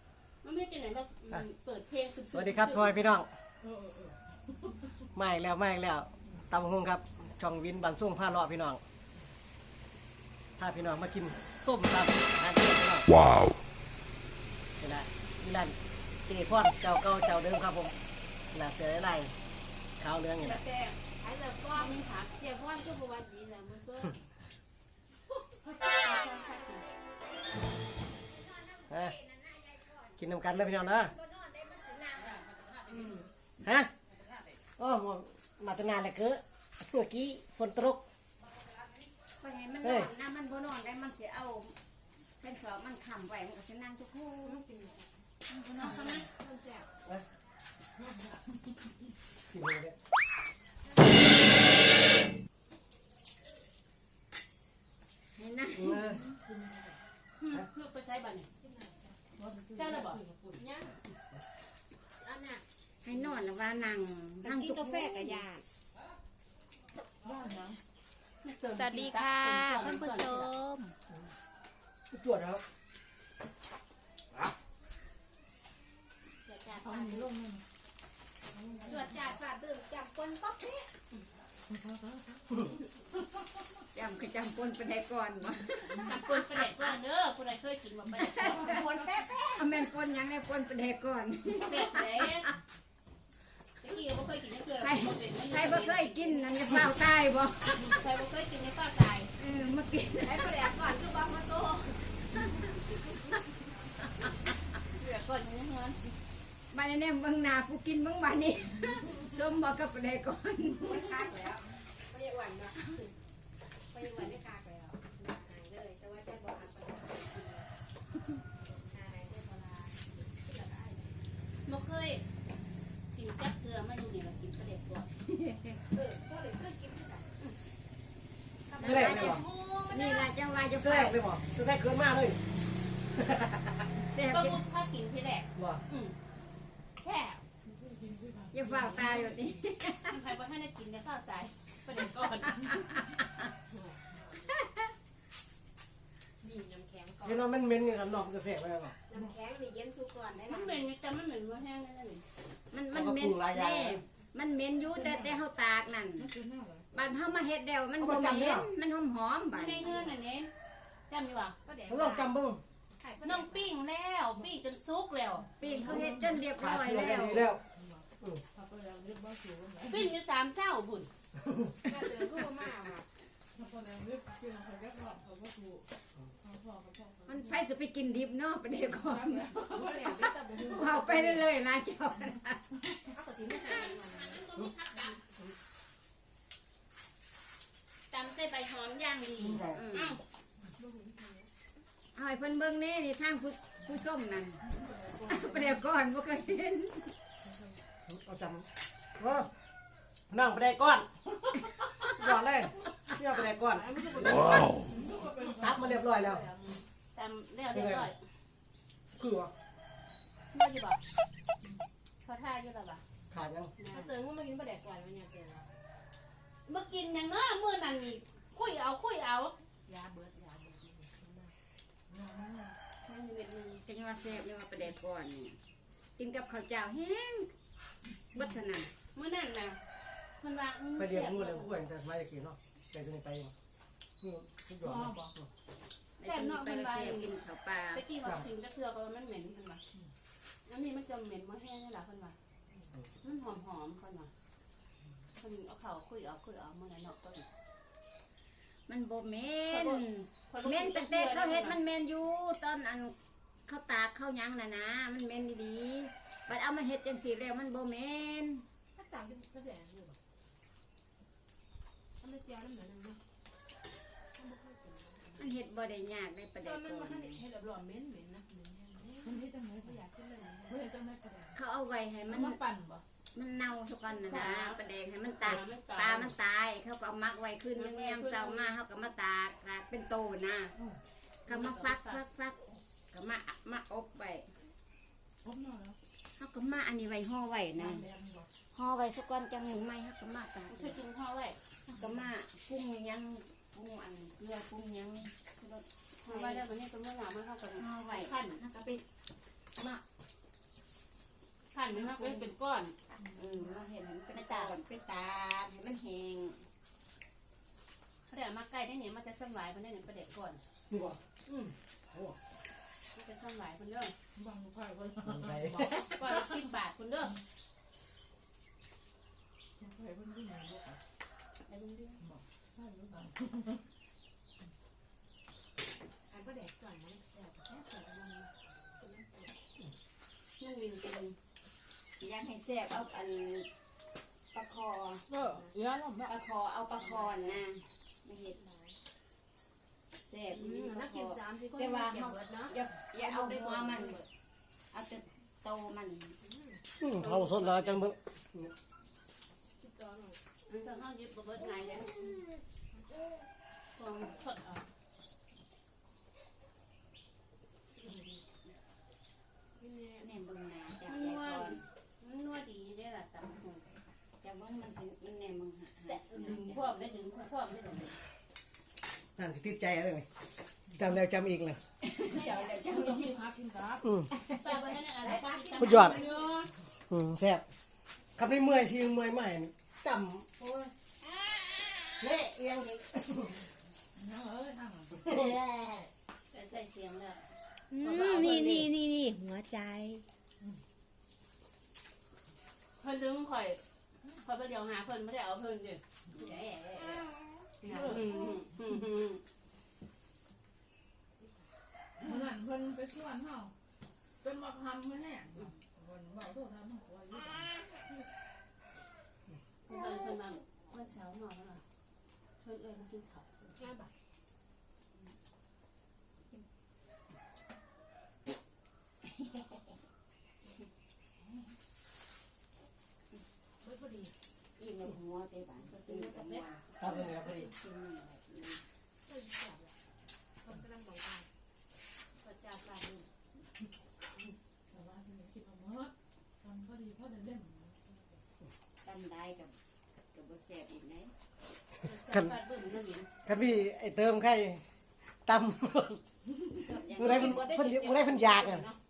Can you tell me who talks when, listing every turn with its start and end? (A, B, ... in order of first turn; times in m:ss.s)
0:00.4-0:03.0 A
0:02.3-0:03.3 B
0:03.6-0:04.7 C
0:05.1-0:08.8 B
0:10.6-0:13.1 B
0:14.8-0:15.8 B
0:16.3-0:17.9 B
0:18.5-0:19.3 B
0:20.0-0:20.6 B
0:20.4-0:21.0 A
0:21.2-0:24.2 D
0:21.7-0:22.4 A
0:25.3-0:26.8 A
0:25.9-0:27.0 E
0:28.2-0:33.2 E
0:28.9-0:29.2 B
0:30.2-0:31.1 B
0:32.2-0:33.2 A
0:33.6-0:33.9 B
0:34.8-0:38.0 B
0:39.4-0:41.8 E
0:39.8-0:40.1 B
0:42.4-0:44.6 E
0:44.4-0:45.1 D
0:45.6-0:45.9 C
0:45.8-0:46.2 A
0:45.8-0:46.9 D
0:48.0-0:48.6 C
0:49.5-0:50.0 B
0:55.4-0:56.0 E
0:55.8-0:56.2 B
0:56.1-0:57.0 C
0:57.4-0:58.5 A
0:58.6-0:59.2 D
0:59.4-1:00.6 C
0:59.7-1:00.2 A
1:00.5-1:01.0 D
1:02.1-1:02.6 D
1:03.0-1:05.5 E
1:04.4-1:05.7 D
1:07.2-1:07.8 C
1:08.4-1:10.5 A
1:08.8-1:10.9 D
1:12.1-1:12.6 B
1:16.4-1:17.3 D
1:16.8-1:17.6 C
1:18.5-1:19.2 C
1:18.9-1:20.9 D
1:21.7-1:22.4 C
1:23.9-1:27.0 E
1:25.9-1:28.8 A
1:28.2-1:28.8 E
1:28.5-1:29.7 D
1:29.5-1:32.6 E
1:31.6-1:32.5 A
1:33.8-1:36.4 A
1:34.8-1:38.0 E
1:37.8-1:39.3 A
1:39.4-1:40.7 E
1:40.2-1:42.0 D
1:45.0-1:46.0 A
1:46.7-1:51.3 E
1:50.8-1:53.1 D
1:53.9-1:57.7 D
1:58.6-2:01.2 D
2:01.6-2:02.2 A
2:03.1-2:05.1 A
2:05.3-2:05.8 E
2:05.9-2:07.3 D
2:08.7-2:10.2 D
2:08.8-2:11.2 E
2:08.8-2:09.4 B
2:10.8-2:12.4 B
2:13.1-2:13.8 B
2:14.1-2:14.6 E
2:14.3-2:16.2 A
2:15.6-2:15.8 B
2:17.0-2:17.5 A
2:17.7-2:19.3 C
2:18.5-2:20.2 E
2:20.1-2:22.7 A
2:23.7-2:24.5 D
2:26.4-2:27.4 D
2:27.2-2:29.0 B
2:29.1-2:30.8 D
2:30.4-2:32.2 A
2:32.7-2:36.3 E
2:32.9-2:34.0 B
2:34.9-2:35.4 C
2:36.2-2:36.9 C
2:36.9-2:40.0 E
2:38.0-2:38.7 B
2:39.5-2:40.5 A
2:41.1-2:41.6 A
2:41.6-2:42.3 D
2:41.9-2:42.6 B
2:43.0-2:43.7 D
2:43.2-2:45.5 A
2:45.6-2:47.5 E
2:45.6-2:46.4 C
2:45.8-2:47.6 B
2:47.7-2:50.1 C
2:49.9-2:51.1 A
2:51.8-2:53.1 D
2:53.6-2:55.9 C
2:56.4-2:57.4 C
2:57.3-2:59.6 E
2:58.9-3:00.3 C
2:59.6-3:01.4 D
3:00.7-3:02.6 E
3:03.1-3:04.4 D
3:03.5-3:05.2 A
3:08.1-3:10.2 A
3:09.4-3:09.8 B
3:09.7-3:10.2 E
3:10.8-3:11.5 D
3:12.2-3:14.6 E
3:14.7-3:15.8 C
3:15.2-3:17.1 E
3:17.5-3:17.8 C
3:18.1-3:18.7 B
3:19.2-3:19.5 B
3:20.3-3:21.4 B
3:22.1-3:23.9 B
3:23.5-3:26.8 D
3:24.8-3:26.0 C
3:25.5-3:26.4 B
3:27.1-3:28.2 A
3:27.7-3:28.1 B
3:29.2-3:29.5 B
3:30.5-3:31.0 A
3:32.2-3:33.0 A
3:33.3-3:33.7 B
3:33.8-3:34.1 A
3:33.8-3:35.7 D
3:36.7-3:39.5 A
3:39.9-3:41.5 D
3:42.1-3:42.8 C
3:43.0-3:43.8 A
3:43.8-3:45.6 E
3:46.2-3:47.5 E
3:48.3-3:48.9 E
3:49.1-3:49.8 A
3:50.4-3:51.8 A
3:51.0-3:53.5 B
3:54.2-3:55.5 B
3:54.8-3:55.3 C
3:56.2-3:58.0 E
3:56.2-3:57.3 A
3:57.9-3:59.8 A
4:00.7-4:02.4 A
4:03.2-4:04.3 A
4:05.4-4:07.5 A
4:08.9-4:13.1 E
4:09.7-4:11.8 A
4:13.7-4:18.6 E
4:19.0-4:20.2 D
4:22.2-4:23.2 D
4:24.4-4:25.5 D
4:25.4-4:27.4 E
4:26.6-4:30.9 D
4:29.2-4:30.0 C
4:30.7-4:31.5 C
4:31.6-4:32.6 E
4:32.3-4:33.0 C
4:33.3-4:40.8 E
4:34.3-4:34.8 A
4:35.4-4:36.3 A
4:37.8-4:38.7 A
4:41.4-4:42.6 E
4:41.5-4:42.2 A
4:43.1-4:44.5 E
4:45.4-4:46.0 C
4:46.4-4:48.1 E
4:47.8-4:48.5 C
4:48.7-4:51.0 E
4:50.7-4:51.6 A
4:51.9-4:56.7 E
4:56.2-4:58.6 A
4:57.8-4:59.0 E
4:59.8-5:00.0 E
5:01.7-5:03.0 A
5:01.9-5:02.5 E
5:03.2-5:06.6 E
5:04.3-5:04.8 A
5:08.3-5:10.6 A
5:10.9-5:11.2 B
5:11.5-5:11.7 A
5:12.1-5:12.4 B
5:13.2-5:14.1 A
5:14.4-5:16.5 C
5:15.3-5:16.1 B
5:16.1-5:17.4 A
5:19.8-5:21.0 C
5:21.7-5:22.2 E
5:22.2-5:23.8 C
5:26.3-5:29.5 D
5:30.6-5:31.4 A
5:32.2-5:33.7 E
5:34.5-5:35.3 E
5:35.3-5:36.3 C
5:35.4-5:35.8 D
5:36.3-5:38.6 E
5:37.0-5:37.4 D
5:38.6-5:39.0 D
5:40.2-5:44.2 E
5:40.5-5:44.3 D
5:44.9-5:46.4 E
5:46.4-5:46.8 D
5:47.0-5:48.7 B
5:49.8-5:50.4 D
5:50.7-5:52.2 A
5:54.0-5:54.8 A
5:59.8-6:00.3 D
6:00.2-6:01.8 E
6:01.1-6:04.1 A
6:04.4-6:07.1 E
6:06.1-6:08.2 A
6:09.4-6:10.3 B
6:10.9-6:11.8 B
6:12.0-6:13.4 E
6:12.3-6:14.1 C
6:12.4-6:12.8 D
6:14.0-6:14.3 B
6:14.6-6:16.7 A
6:15.2-6:16.4 D
6:15.8-6:16.2 B
6:17.1-6:17.6 B
6:18.4-6:20.5 B
6:22.2-6:23.6 B
6:24.2-6:25.2 C
6:25.2-6:26.1 B
6:26.5-6:27.5 A
6:27.9-6:30.2 E
6:28.0-6:28.9 A
6:33.0-6:33.8 A
6:34.4-6:37.3 A
6:37.8-6:38.2 C
6:37.9-6:39.4 A
6:41.4-6:41.6 D
6:42.2-6:43.7 C
6:44.4-6:47.7 C
6:49.9-6:51.8 A
6:52.6-6:53.5 A
6:53.8-6:54.1 D
7:03.8-7:04.3 D
7:04.8-7:08.8 E
7:06.0-7:06.6 D
7:07.0-7:07.7 B
7:09.3-7:10.0 D
7:10.6-7:11.5 D
7:12.4-7:13.3 D
7:14.9-7:18.4 C
7:19.0-7:19.8 E
7:20.3-7:21.3 E
7:22.0-7:23.3 A
7:23.4-7:24.8 B
7:25.4-7:26.2 B
7:26.8-7:27.7 E
7:27.2-7:28.9 B
7:27.2-7:28.9 D